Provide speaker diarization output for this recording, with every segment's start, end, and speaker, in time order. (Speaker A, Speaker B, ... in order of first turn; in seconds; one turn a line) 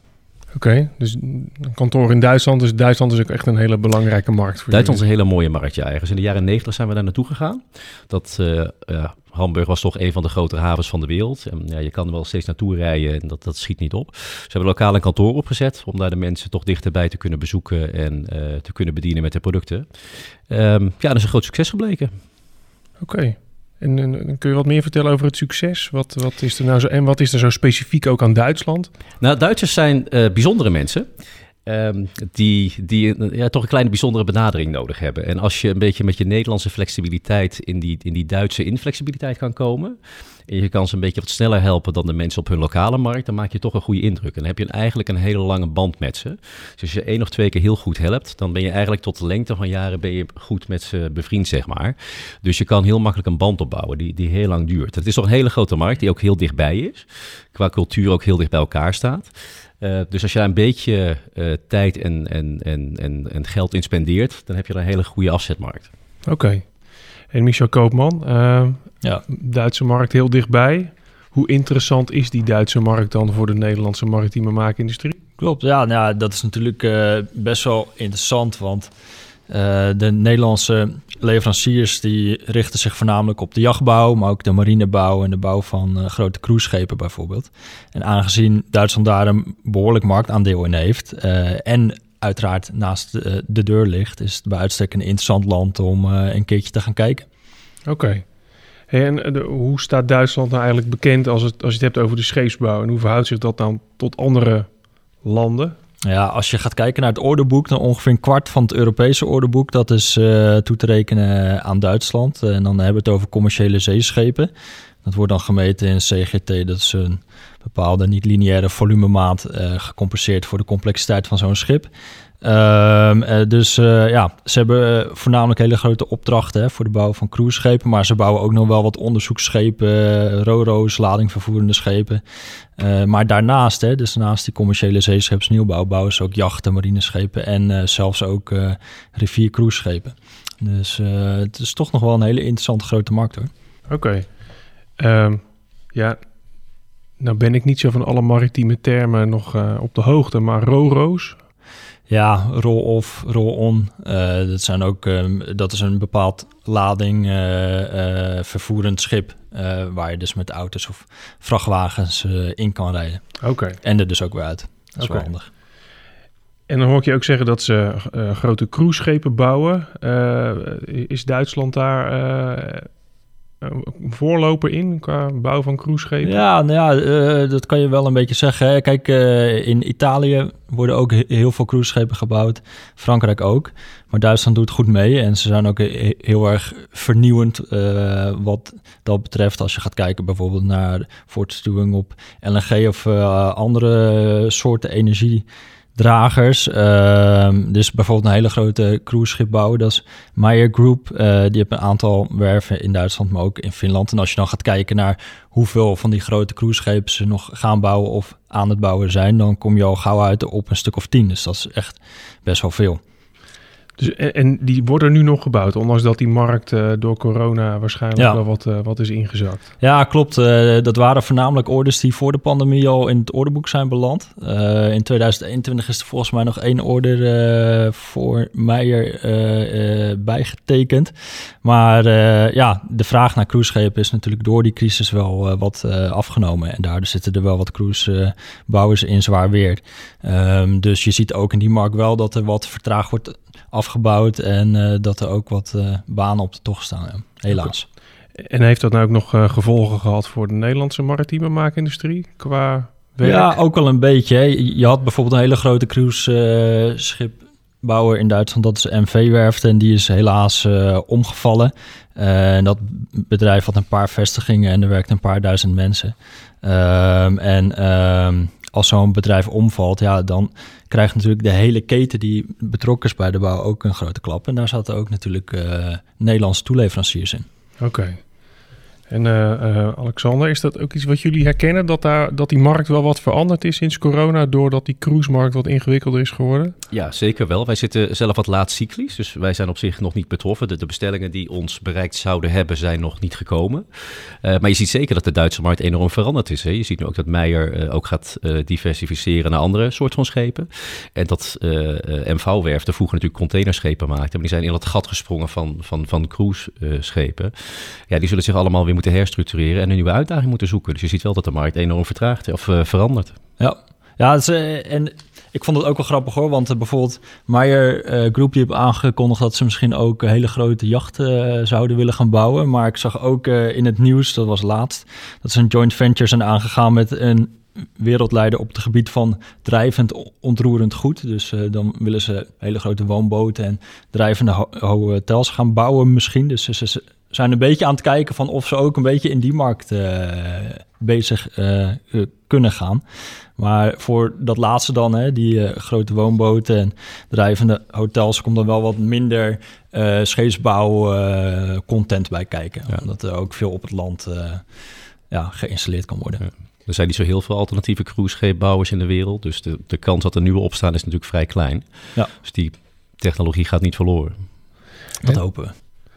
Speaker A: 0.5-5.0
Speaker B: 4.7-22.1
Speaker A: 23.0-28.9
Speaker B: 29.2-31.1
Speaker B: 31.6-65.9
Speaker A: 66.2-75.2
Speaker C: 75.4-78.9
Speaker C: 79.5-97.2
Speaker A: 97.9-105.8
Speaker C: 106.0-114.5
Speaker C: 115.0-121.9
Speaker C: 122.4-132.2
Speaker C: 132.8-143.5
Speaker A: 143.9-146.2
Speaker A: 147.2-151.4
Speaker C: 152.1-165.5
Speaker A: 163.4-163.8
Speaker A: 165.0-165.3
Speaker A: 166.7-173.0
Speaker A: 173.6-176.3
Speaker C: 176.2-213.0
Speaker A: 214.0-219.7
Speaker C: 219.8-247.9
Speaker A: 248.3-253.6
Speaker C: 253.2-277.4
Speaker A: 277.8-286.8
Speaker B: 286.9-313.4
Speaker C: 313.6-343.0
Speaker C: 343.6-354.8
Speaker C: 355.3-356.4
Speaker B: 356.4-364.4
Speaker C: 365.2-365.7